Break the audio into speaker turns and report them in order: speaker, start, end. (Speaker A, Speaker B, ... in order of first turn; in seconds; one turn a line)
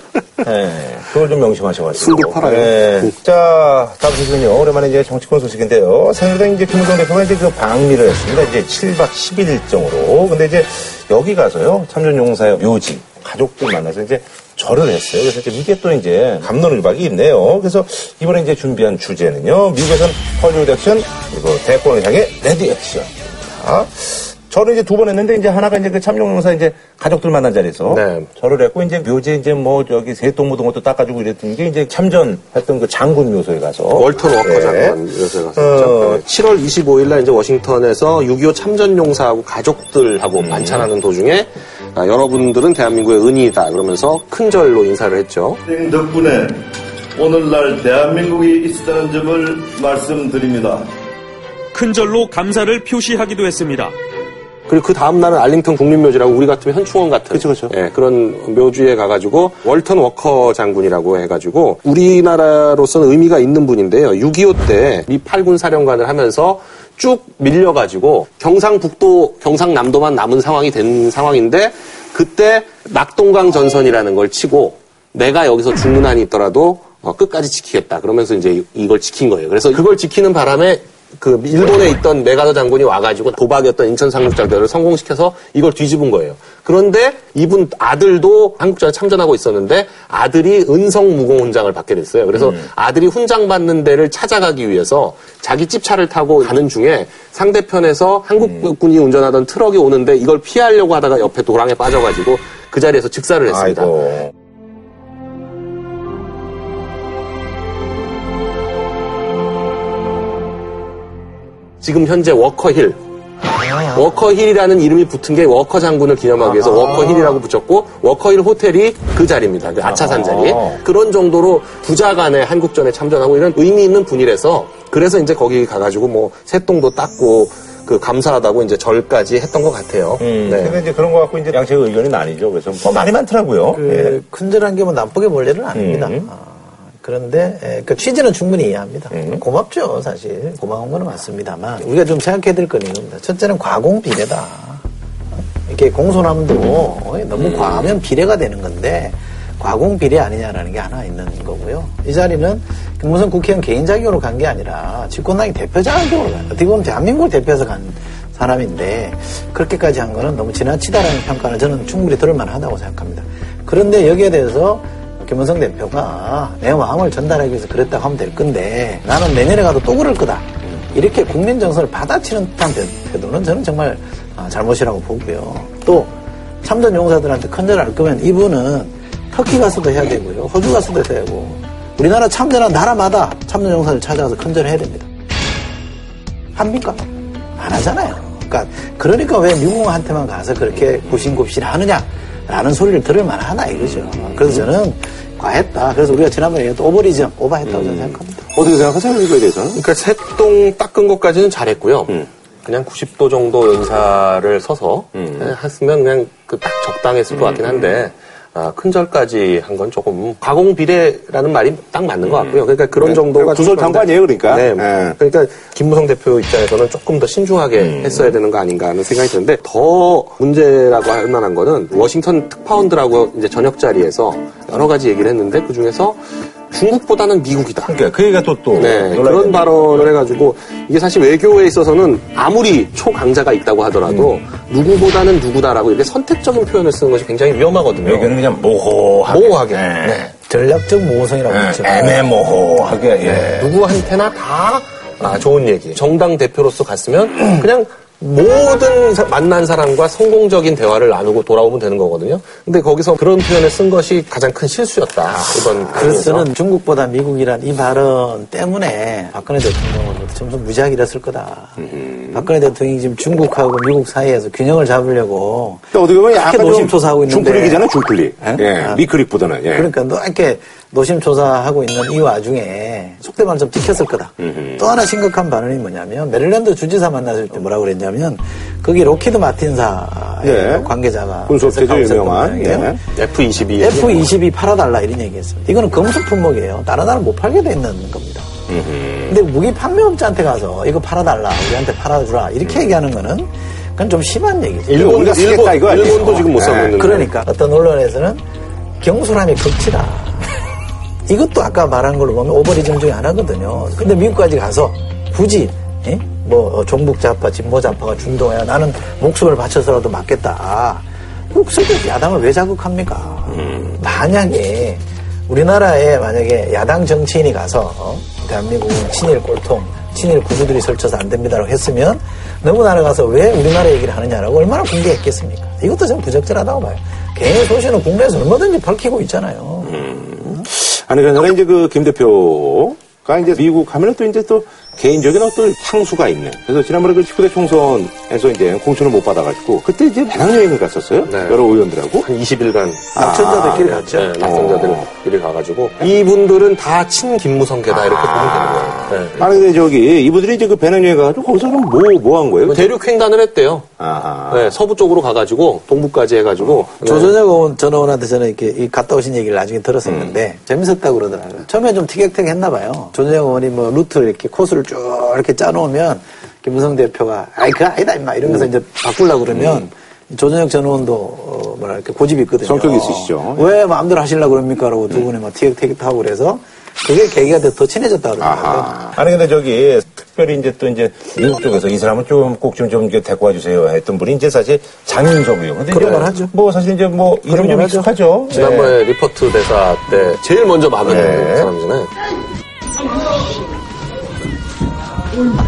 Speaker A: 0.4-35.0
Speaker B: 2.0-3.1
Speaker B: 27.9-28.3
Speaker B: 33.9-45.6
Speaker A: 35.5-36.2
Speaker A: 40.4-40.9
Speaker C: 45.7-46.5
Speaker C: 47.2-50.8
Speaker D: 51.7-53.9
Speaker B: 54.7-103.9
Speaker A: 57.3-57.7
Speaker A: 92.3-92.7
Speaker A: 98.4-98.7
Speaker A: 103.5-104.3
Speaker B: 111.8-113.0
Speaker A: 113.4-114.1
Speaker B: 113.9-130.8
Speaker A: 116.4-117.4
Speaker A: 119.8-120.8
Speaker A: 130.2-134.2
Speaker E: 133.7-144.8
Speaker A: 135.7-136.3
Speaker A: 139.1-139.4
Speaker E: 145.6-185.1
Speaker A: 146.5-148.0
Speaker E: 186.5-187.0
Speaker E: 187.6-198.4
Speaker A: 193.7-194.7
Speaker A: 197.6-199.8
Speaker B: 199.7-226.2
Speaker A: 205.1-205.5
Speaker A: 207.3-208.0
Speaker A: 212.2-215.2
Speaker A: 217.8-218.4
Speaker B: 226.7-227.9
Speaker A: 227.8-230.1
Speaker B: 228.8-238.4
Speaker A: 234.0-234.4
Speaker A: 238.0-240.3
Speaker B: 239.3-240.3
Speaker E: 240.5-242.2
Speaker A: 241.5-243.7
Speaker B: 243.2-256.5
Speaker A: 255.3-256.3
Speaker E: 255.9-261.8
Speaker A: 261.8-262.5
Speaker E: 262.3-267.8
Speaker A: 265.9-269.9
Speaker E: 268.4-269.0
Speaker E: 269.7-283.0
Speaker A: 274.4-275.0
Speaker A: 280.4-280.9
Speaker A: 281.5-283.0
Speaker B: 283.1-284.3
Speaker E: 283.8-288.5
Speaker A: 288.7-289.4
Speaker E: 289.3-295.1
Speaker A: 292.6-292.9
Speaker B: 294.9-297.3
Speaker A: 294.9-297.0
Speaker E: 296.9-298.4
Speaker E: 299.0-300.6
Speaker E: 301.3-330.6
Speaker A: 313.5-314.0
Speaker A: 329.8-342.3
Speaker B: 341.2-341.6
Speaker B: 342.2-349.4
Speaker A: 343.1-345.1
Speaker E: 343.1-344.3
Speaker A: 347.9-352.9
Speaker B: 352.6-353.9
Speaker A: 354.0-354.7
Speaker B: 354.5-357.3
Speaker A: 356.6-356.9
Speaker E: 357.0-378.9
Speaker A: 360.0-360.4
Speaker A: 368.4-368.7
Speaker A: 369.5-369.9
Speaker A: 372.6-373.7
Speaker A: 378.4-388.9
Speaker E: 385.9-386.5
Speaker E: 387.4-388.7
Speaker B: 388.5-392.1
Speaker A: 391.0-391.7